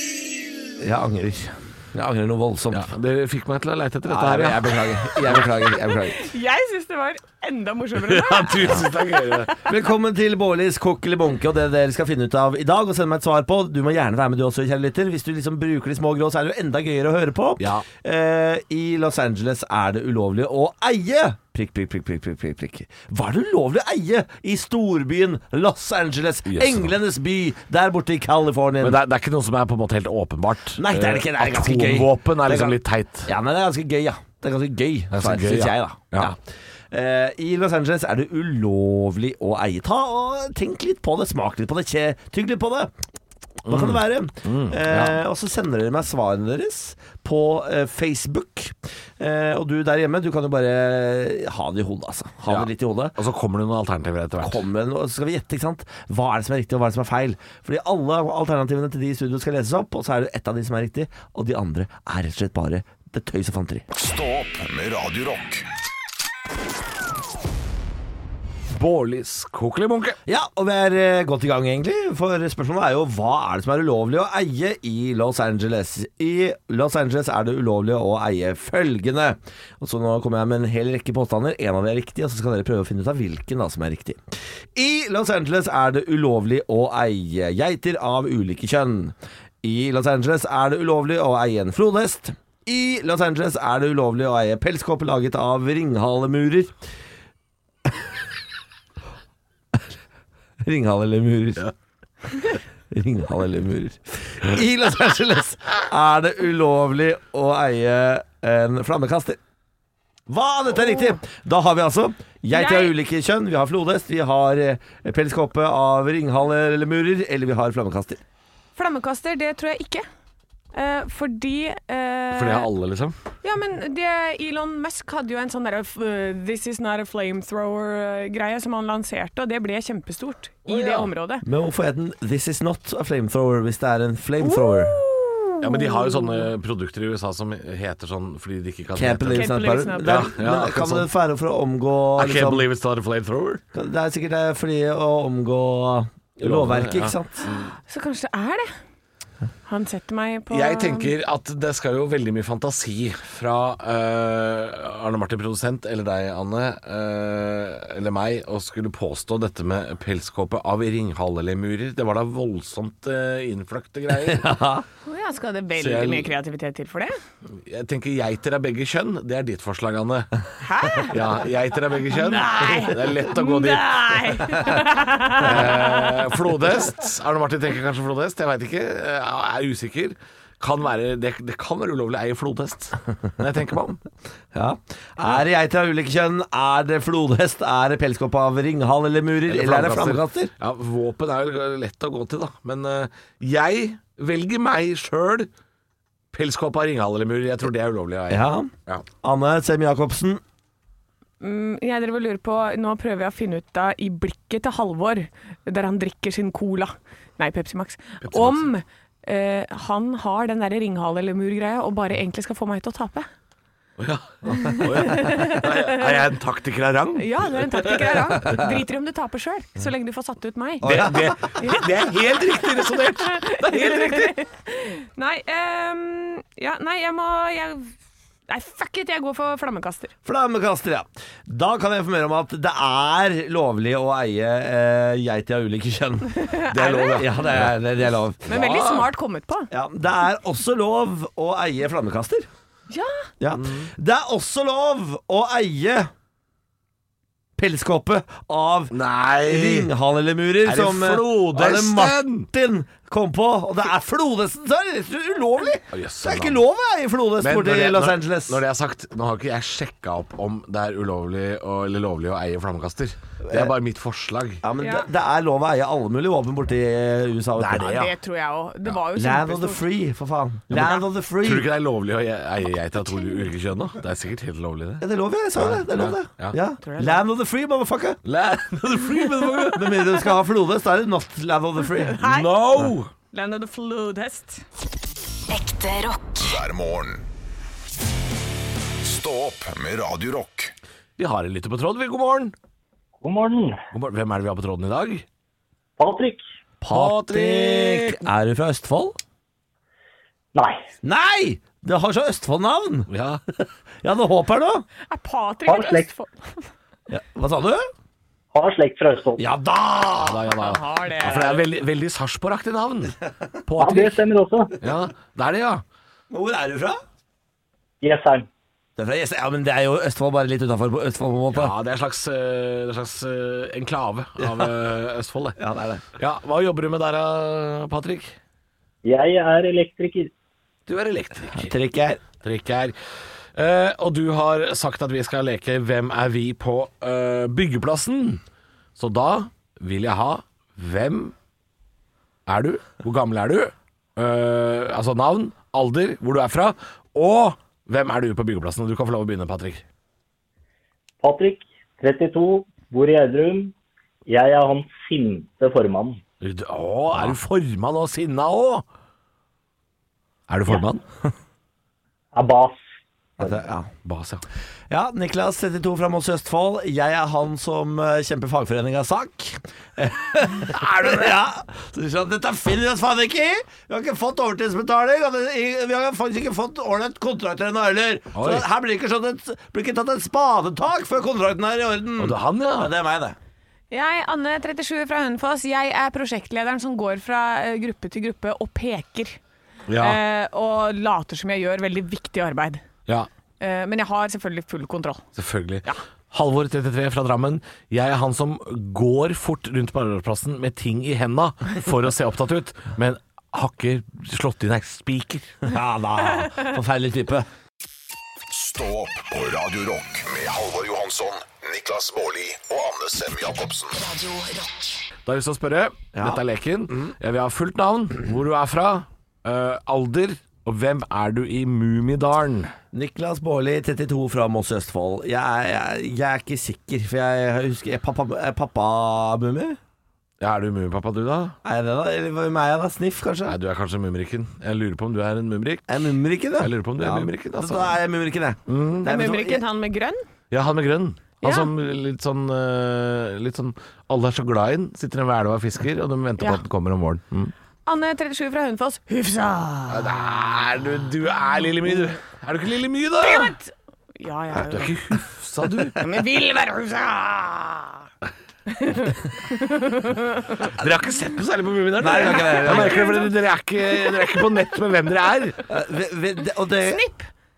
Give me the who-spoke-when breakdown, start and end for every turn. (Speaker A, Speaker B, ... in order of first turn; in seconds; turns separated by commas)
Speaker A: 0.8-2.9, Speaker B: 2.7-5.5, Speaker A: 4.0-6.3, Speaker C: 6.0-9.4, Speaker B: 8.1-9.6, Speaker A: 9.7-29.0, Speaker B: 17.6-17.9, Speaker B: 26.5-26.9, Speaker B: 28.8-33.3, Speaker A: 30.8-36.4, Speaker B: 35.1-36.3, Speaker A: 36.9-42.9, Speaker B: 43.6-45.2, Speaker A: 43.7-53.2, Speaker B: 52.5-54.6, Speaker A: 54.4-63.9, Speaker D: 63.9-65.6, Speaker B: 68.7-70.2, Speaker A: 70.3-84.2, Speaker A: 84.7-96.8, Speaker A: 100.6-101.6, Speaker A: 102.9-109.4, Speaker A: 110.3-118.2, Speaker C: 112.5-112.9, Speaker C: 118.8-120.0, Speaker C: 120.7-122.7, Speaker B: 122.3-123.1, Speaker C: 123.4-131.4, Speaker B: 130.7-131.1, Speaker A: 131.4-135.0, Speaker C: 134.4-136.4, Speaker B: 135.6-141.1, Speaker A: 138.9-142.6, Speaker C: 139.3-140.3, Speaker B: 142.2-143.6, Speaker A: 143.7-147.4, Speaker B: 146.4-147.7, Speaker C: 147.4-148.7, Speaker C: 149.7-151.1, Speaker B: 150.5-164.5, Speaker A: 164.2-164.8, Speaker C: 165.1-167.2, Speaker B: 165.8-166.3, Speaker B: 167.6-170.4, Speaker C: 170.6-171.2, Speaker B: 171.1-174.5, Speaker C: 172.1-176.4, Speaker B: 175.4-184.0, Speaker A: 184.5-190.5, Speaker B: 189.5-195.5, Speaker B: 196.3-199.1, Speaker A: 198.3-200.4, Speaker C: 201.4-213.3, Speaker B: 208.2-208.7, Speaker B: 214.0-218.2, Speaker C: 214.5-216.2, Speaker C: 217.2-220.9, Speaker A: 218.4-218.7, Speaker A: 220.8-221.6, Speaker B: 220.8-224.3, Speaker C: 221.6-221.8, Speaker C: 223.2-227.9, Speaker C: 228.5-230.1, Speaker A: 230.2-238.6, Speaker C: 236.3-237.5, Speaker B: 236.7-237.7, Speaker C: 238.5-239.7, Speaker B: 238.5-239.1, Speaker A: 239.7-242.5, Speaker C: 242.9-243.3, Speaker A: 243.4-246.1, Speaker B: 243.5-243.9, Speaker A: 247.6-258.6, Speaker B: 248.9-249.9, Speaker B: 250.6-252.5, Speaker B: 255.9-256.6, Speaker B: 257.4-264.6, Speaker A: 263.4-263.7, Speaker A: 264.6-268.0, Speaker C: 264.8-265.1, Speaker B: 267.6-268.1, Speaker C: 267.8-269.8, Speaker A: 269.1-271.7, Speaker B: 270.7-275.0, Speaker C: 273.0-273.4, Speaker A: 275.0-278.2, Speaker B: 275.6-276.6, Speaker C: 276.8-277.2, Speaker B: 278.2-280.0, Speaker C: 279.0-279.6, Speaker A: 279.7-282.2, Speaker C: 281.8-284.6, Speaker B: 282.2-283.1, Speaker E: 285.5-286.5, Speaker D: 286.4-287.2, Speaker D: 289.0-290.7, Speaker B: 291.2-292.5, Speaker F: 293.2-293.8, Speaker B: 293.9-295.2, Speaker F: 296.0-296.4, Speaker A: 296.8-299.2, Speaker B: 296.9-298.2, Speaker F: 300.5-300.9, Speaker A: 301.0-303.1, Speaker B: 303.1-303.4, Speaker A: 304.0-304.9, Speaker C: 305.1-306.7, Speaker F: 305.6-306.1, Speaker A: 307.1-307.9, Speaker F: 308.5-309.4, Speaker A: 309.4-310.5, Speaker B: 310.2-314.2, Speaker C: 310.5-311.6, Speaker F: 313.8-314.8, Speaker B: 314.8-315.8, Speaker A: 316.3-317.0, Speaker F: 318.0-318.5, Speaker A: 319.0-321.8, Speaker B: 321.5-325.6, Speaker A: 325.6-326.0, Speaker B: 326.2-328.4, Speaker F: 329.0-330.3, Speaker B: 330.9-331.7, Speaker A: 331.6-332.2, Speaker B: 332.4-332.9, Speaker B: 333.5-338.4, Speaker B: 339.0-341.3, Speaker B: 342.5-349.8, Speaker F: 351.2-353.7, Speaker F: 354.3-356.2, Speaker B: 356.4-358.8, Speaker B: 360.5-361.0, Speaker F: 362.3-362.8, Speaker A: 363.4-363.9, Speaker B: 364.0-364.4, Speaker A: 364.9-383.4, Speaker B: 378.3-378.6, Speaker B: 382.2-382.9, Speaker C: 383.9-389.4, Speaker B: 389.9-390.2, Speaker C: 390.0-392.8, Speaker C: 393.6-395.2, Speaker B: 395.4-405.5, Speaker A: 405.6-407.5, Speaker D: 408.5-413.9, Speaker E: 413.9-415.1, Speaker B: 415.2-422.7, Speaker A: 416.1-416.4, Speaker A: 422.9-429.8, Speaker B: 430.4-431.5, Speaker A: 431.6-433.6, Speaker B: 433.5-436.0, Speaker A: 435.9-439.6, Speaker B: 436.6-438.0, Speaker B: 438.7-439.1, Speaker C: 439.0-440.2, Speaker B: 440.5-447.5, Speaker C: 441.4-441.7, Speaker C: 447.9-450.1, Speaker B: 449.9-453.5, Speaker C: 453.2-455.0, Speaker B: 454.5-456.0, Speaker C: 455.9-458.1, Speaker C: 458.7-460.7, Speaker B: 460.6-465.6, Speaker A: 462.0-463.1, Speaker C: 462.2-463.3, Speaker A: 465.7-467.0, Speaker C: 466.8-467.3